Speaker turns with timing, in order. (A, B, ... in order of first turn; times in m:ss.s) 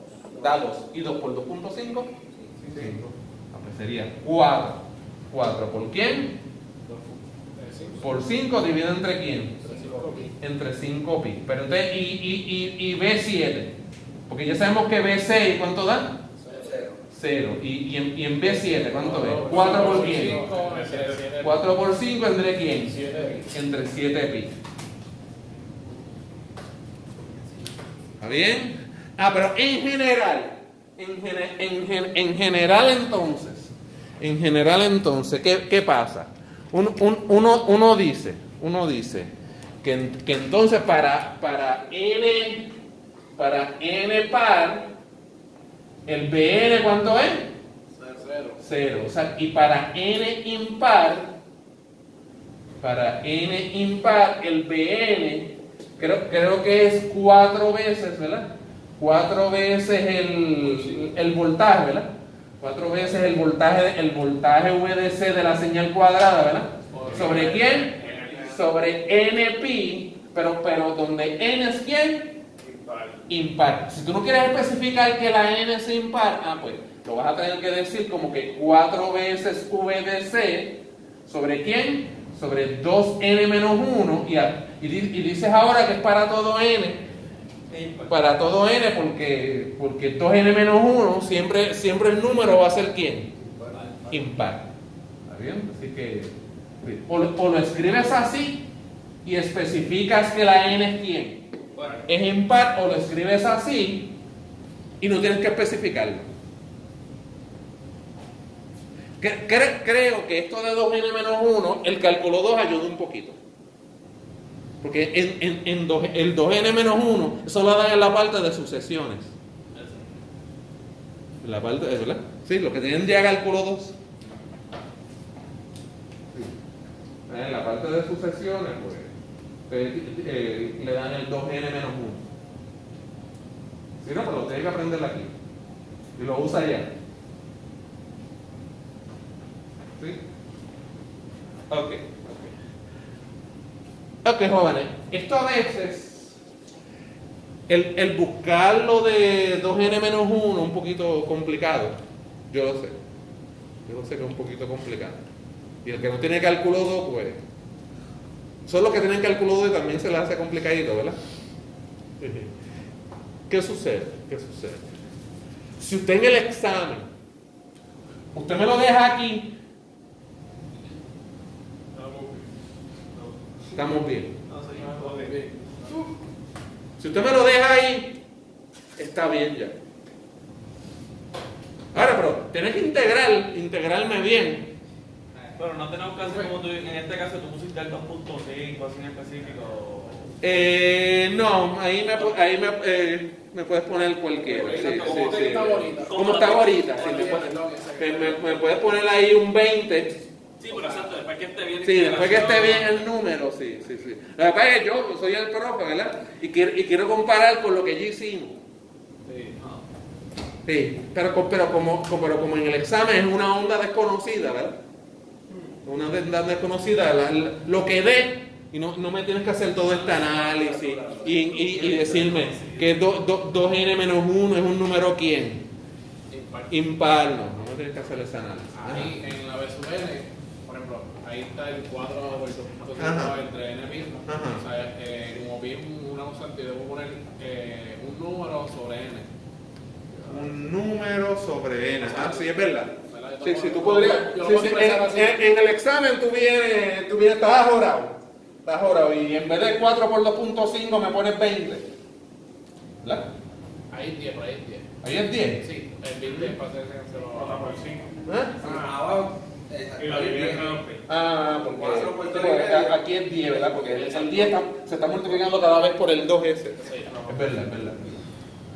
0:00.4-0:02.1 A
0:02.3-0:03.1 B
0:02.7-0:06.4 A
0:06.8-0:08.0 C
0:08.0-0:09.6 A
0:09.6-0:10.3 B
0:09.6-0:10.3 C
0:10.4-0:13.8 A
0:14.3-0:16.2 A
0:16.4-0:16.8 C
0:16.4-0:17.0 B
0:17.1-0:20.4 A
0:18.6-0:21.7 C
0:19.2-0:19.9 B
0:19.6-0:21.3 D
0:21.4-0:24.5 A
0:22.8-0:23.5 C
0:28.2-0:42.7 A
0:43.4-0:44.9 A
0:46.0-0:47.5 A
0:48.0-0:48.6 C
0:48.6-0:51.3 A
0:52.8-1:12.4 A
1:00.6-1:01.1 C
1:06.9-1:08.6 C
1:07.0-1:08.6 D
1:12.6-1:13.2 D
1:13.3-1:27.1 A
1:27.7-1:28.1 E
1:28.1-1:33.3 A
1:33.3-1:34.1 B
1:34.1-1:34.7 A
1:35.2-1:38.7 A
1:39.2-1:41.4 A
1:42.0-1:44.1 A
1:45.0-1:46.2 A
1:49.2-1:53.4 A
1:54.8-1:59.3 A
2:01.4-2:04.0 A
2:07.3-2:09.1 A
2:09.7-2:12.3 A
2:14.0-2:15.3 A
2:16.2-2:16.9 A
2:21.7-2:22.5 A
2:24.2-2:26.4 A
2:27.7-2:32.0 A
2:32.5-2:33.0 A
2:33.8-2:35.2 A
2:35.8-2:37.4 A
2:38.6-2:41.2 A
2:42.2-2:42.5 A
2:43.5-2:44.9 A
2:45.8-2:47.1 A
2:48.3-2:49.6 A
2:52.0-2:52.4 D
2:53.7-2:54.3 A
2:54.5-2:55.3 E
2:54.7-2:56.0 C
2:57.0-2:58.2 A
2:59.0-2:59.8 A
3:01.9-3:04.7 A
3:05.5-3:10.3 E
3:06.2-3:06.5 C
3:10.4-3:20.2 A
3:14.4-3:17.4 E
3:14.5-3:16.3 C
3:17.0-3:18.9 C
3:20.6-3:22.9 E
3:20.7-3:21.1 C
3:21.8-3:28.6 A
3:29.2-3:29.6 C
3:30.6-3:34.8 A
3:35.8-3:45.7 A
3:40.2-3:42.8 E
3:46.3-3:46.8 C
3:46.7-3:49.1 A
3:48.7-3:59.3 C
3:53.0-3:53.4 A
3:54.2-3:54.6 A
4:00.3-4:11.9 A
4:02.0-4:05.4 C
4:13.0-4:13.3 A
4:13.9-4:14.9 C
4:15.0-4:15.6 A
4:15.6-4:17.8 C
4:16.3-4:16.5 A
4:17.3-4:19.0 D
4:18.2-4:18.6 A
4:18.6-4:20.8 B
4:20.0-4:21.0 D
4:21.0-4:28.2 A
4:21.7-4:23.1 B
4:23.8-4:24.6 C
4:26.8-4:27.2 C
4:27.0-4:27.9 B